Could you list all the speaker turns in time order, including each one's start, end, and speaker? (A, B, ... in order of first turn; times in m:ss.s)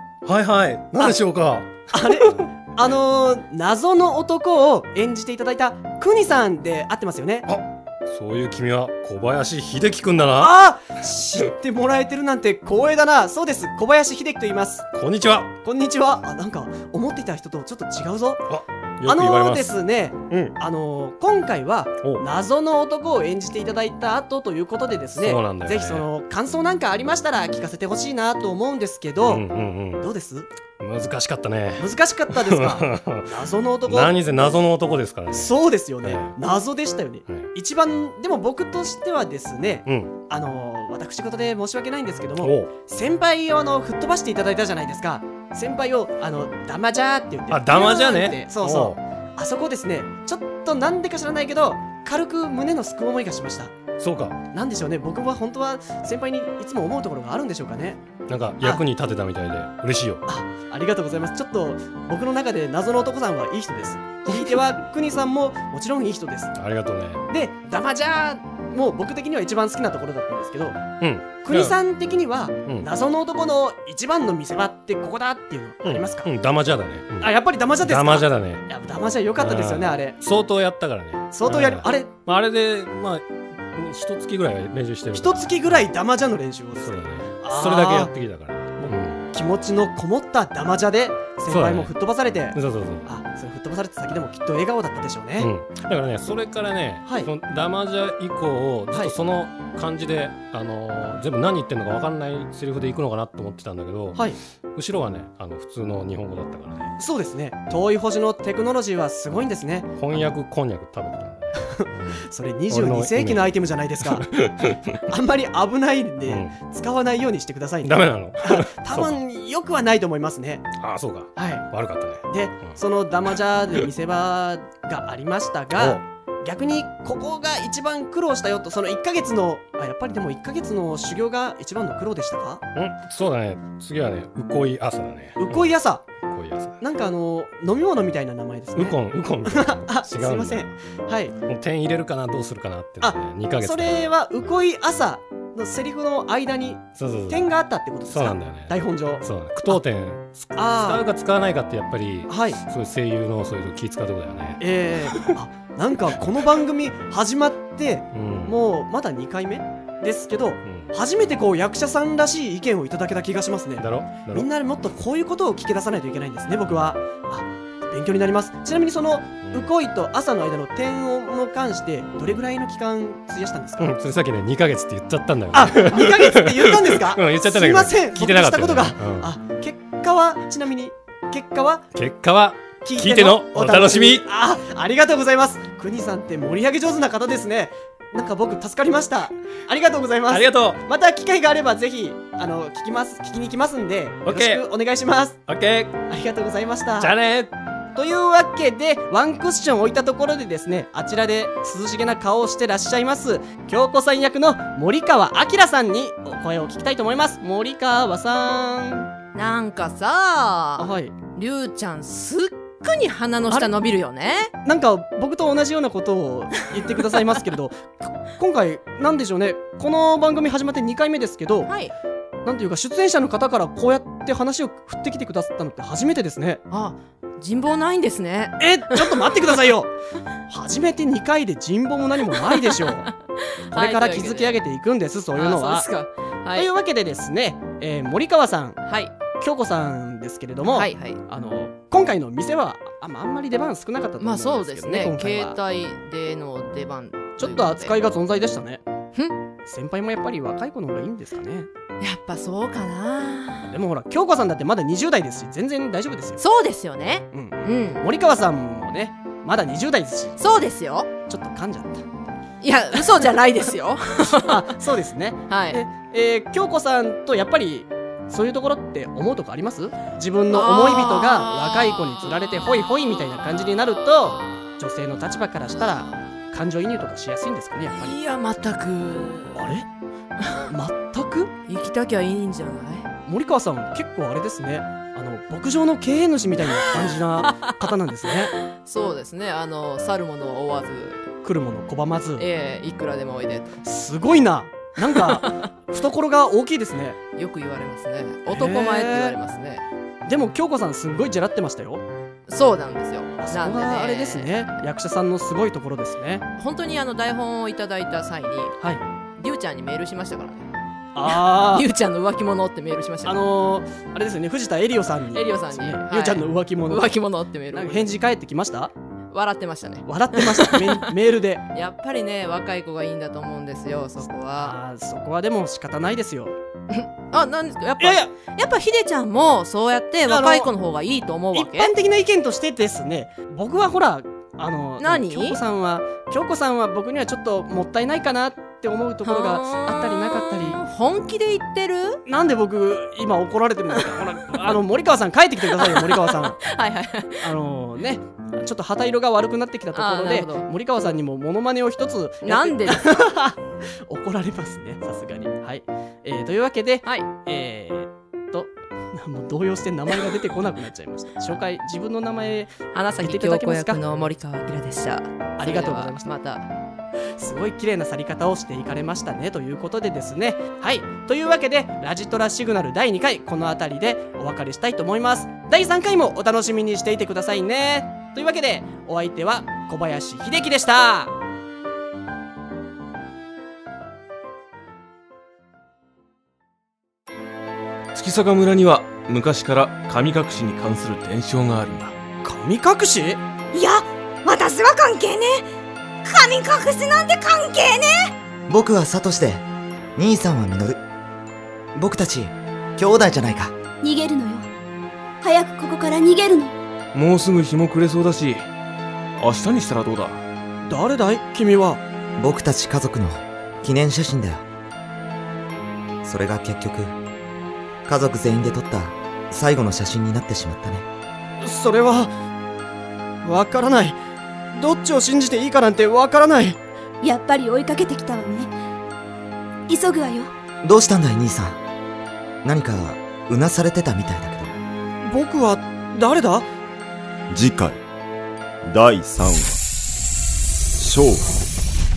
0:00.2-0:02.3 A
0:01.9-0:07.5 B
0:07.5-0:10.5 A
0:10.4-0:14.9 B
0:14.9-0:15.5 A
0:15.6-0:18.5 B
0:18.5-0:19.7 A
0:19.0-0:30.5 B
0:20.3-0:20.6 A
0:25.1-0:26.1 A
0:29.2-0:30.0 A
0:30.8-0:36.4 A
0:31.8-0:34.3 B
0:35.3-0:53.7 B
0:37.3-0:37.5 A
0:39.9-0:40.2 A
0:42.4-0:42.7 A
0:47.5-0:49.0 A
0:54.0-0:54.4 A
0:54.5-0:58.0 B
0:58.3-1:00.3 A
1:00.3-1:06.5 B
1:06.6-1:07.2 A
1:07.3-1:16.3 B
1:11.0-1:11.8 A
1:15.8-1:18.7 A
1:17.2-1:20.2 B
1:19.4-1:25.9 A
1:21.3-1:22.2 B
1:25.1-1:28.1 B
1:26.7-1:29.2 A
1:28.8-1:35.5 B
1:31.5-1:32.0 A
1:32.5-1:33.2 A
1:35.4-1:47.0 A
1:37.0-1:37.3 B
1:38.9-1:39.2 B
1:47.0-1:49.9 B
1:50.0-1:53.5 A
1:51.7-1:54.3 B
1:54.1-1:55.0 A
1:55.1-2:00.7 B
1:56.3-1:56.6 A
1:57.8-1:59.2 A
2:00.8-2:02.8 A
2:01.4-2:01.7 B
2:02.3-2:12.6 B
2:05.8-2:06.0 A
2:12.8-2:16.8 A
2:15.4-2:16.1 B
2:16.8-2:21.4 B
2:18.8-2:20.8 A
2:21.4-2:24.5 A
2:23.0-2:29.8 B
2:27.0-2:27.5 A
2:28.0-2:34.6 A
2:30.5-2:31.1 B
2:32.3-2:32.6 B
2:34.6-2:53.9 B
2:38.1-2:38.6 A
2:40.6-2:40.9 A
2:43.8-2:44.5 A
2:49.4-2:49.7 A
2:53.8-2:59.4 A
2:55.5-3:01.9 B
3:01.9-3:04.2 A
3:02.8-3:15.4 B
3:10.3-3:10.8 A
3:14.3-3:14.6 A
3:15.5-3:16.0 A
3:16.1-3:17.2 B
3:17.0-3:17.6 A
3:18.0-3:29.1 B
3:29.3-3:34.5 C
3:30.8-3:31.2 B
3:34.6-3:41.7 B
3:41.7-3:41.9 C
3:42.4-3:46.6 B
3:46.7-3:49.2 C
3:48.6-3:49.9 B
3:50.5-3:53.0 B
3:52.5-3:54.6 C
3:53.7-3:55.9 B
3:55.4-3:56.7 C
3:56.6-3:58.8 B
3:58.8-3:59.1 C
3:59.4-4:05.6 B
4:00.7-4:01.2 C
4:04.2-4:07.9 C
4:07.4-4:08.8 B
4:09.7-4:11.7 B
4:12.0-4:13.7 C
4:13.7-4:16.4 B
4:16.4-4:18.0 C
4:17.3-4:20.5 B
4:20.4-4:21.1 C
4:21.3-4:22.0 B
4:22.6-4:24.6 C
4:24.4-4:38.2 B
4:25.5-4:25.8 C
4:30.5-4:32.3 C
4:34.3-4:34.7 C
4:37.9-4:39.7 C
4:39.5-4:39.9 B
4:40.7-4:41.5 B
4:41.7-4:43.1 C
4:43.3-4:48.5 B
4:47.0-4:47.5 C
4:48.8-4:51.2 C
4:51.4-4:52.4 B
4:52.4-4:53.7 C
4:53.8-4:57.2 B
4:57.4-4:59.8 C
4:58.5-4:59.4 B
5:00.3-5:02.0 B
5:02.5-5:04.7 C
5:03.4-5:06.4 B
5:06.6-5:08.8 C
5:09.4-5:10.7 C
5:11.2-5:11.9 B
5:11.2-5:13.4 C
5:13.2-5:17.1 B
5:15.3-5:18.2 C
5:17.7-5:18.9 B
5:19.3-5:21.0 C
5:20.1-5:21.6 B
5:21.7-5:24.8 C
5:24.5-5:26.5 B
5:26.9-5:31.9 C
5:28.0-5:28.3 B
5:30.3-5:30.7 B
5:31.5-5:40.8 B
5:35.0-5:35.6 C
5:39.2-5:42.2 C
5:42.3-5:46.6 B
5:46.6-5:47.5 C
5:47.4-5:53.6 B
5:49.9-5:50.7 C
5:52.4-5:53.2 C
5:54.1-6:04.0 B
5:57.0-5:57.3 C
6:02.9-6:06.7 C
6:05.6-6:06.3 B
6:07.4-6:21.3 B
6:28.2-6:32.2 D
6:32.4-6:33.4 B
6:33.8-6:35.7 E
6:36.2-6:38.3 E
6:38.7-6:39.6 F
6:40.2-6:41.0 F
6:42.0-6:43.8 F
6:44.0-6:44.7 G
6:45.4-6:46.7 G
6:47.1-6:48.7 D
6:49.4-6:50.4 D
6:50.9-6:52.0 B
6:52.4-6:54.6 F
6:56.2-6:57.2 F
6:58.1-7:01.1 F
7:01.6-7:02.3 B
7:03.4-7:04.2 B
7:04.7-7:06.8 B
7:07.2-7:08.7 G
7:09.9-7:10.5 G
7:10.8-7:11.8 F
7:12.6-7:14.8 F
7:15.2-7:16.7 B
7:17.5-7:18.0 H
7:18.9-7:19.8 H
7:21.0-7:21.5 H